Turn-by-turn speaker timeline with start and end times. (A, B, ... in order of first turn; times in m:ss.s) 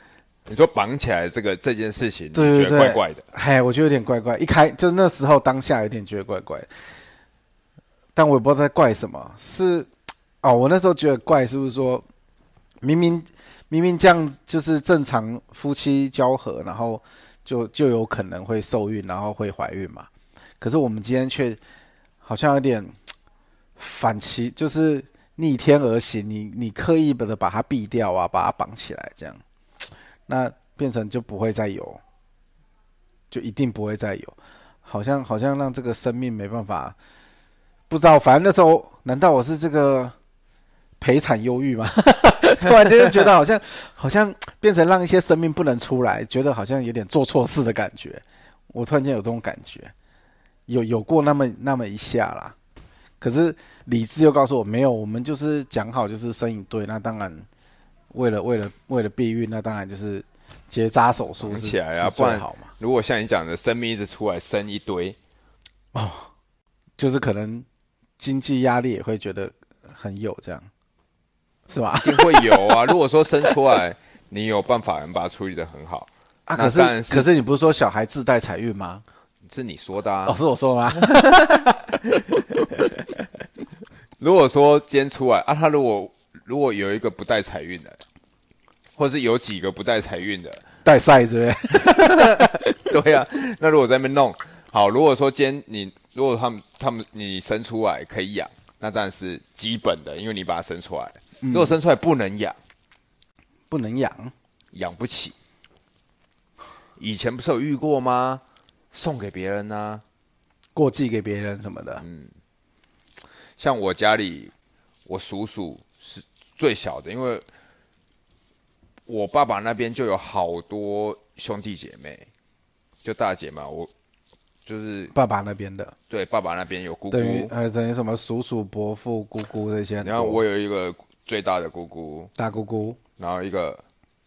0:00.5-0:03.2 A
0:02.3-0:06.7 B
0:08.2-0:09.9 B
0:10.4-0:12.1 B
0:12.8-0:20.1 B
0:20.6-0:21.6 B
0:22.2-0:23.0 B
0:23.8-0:29.4 B
0:30.3-0:32.0 B
0:33.3-0:37.0 B
0:37.9-0:40.2 B
0:41.0-0:49.9 B
0:50.7-0:52.6 B
0:53.2-0:57.5 B
0:58.1-1:02.7 B
1:01.4-1:05.2 A
1:05.9-1:06.3 B
1:07.0-1:07.7 B
1:08.2-1:10.7 B
1:11.7-1:12.9 B
1:12.0-1:17.3 A
1:16.5-1:19.0 B
1:19.5-1:20.4 A
1:20.3-1:21.7 B
1:21.0-1:23.2 A
1:24.2-1:28.0 A
1:29.0-1:30.6 A
1:30.8-1:32.7 B
1:31.7-1:42.6 A
1:41.4-1:41.8 B
1:43.7-1:44.3 B
1:44.7-1:45.4 A
1:47.0-1:50.0 A
1:50.8-1:52.0 B
1:52.0-1:52.3 A
1:53.6-1:54.5 A
1:55.1-1:57.4 A
1:59.1-2:02.3 A
2:03.0-2:03.9 A
2:04.6-2:05.1 A
2:05.1-2:06.0 B
2:06.1-2:07.5 A
2:07.1-2:10.4 B
2:10.0-2:12.3 A
2:12.4-2:13.0 B
2:13.2-2:13.8 A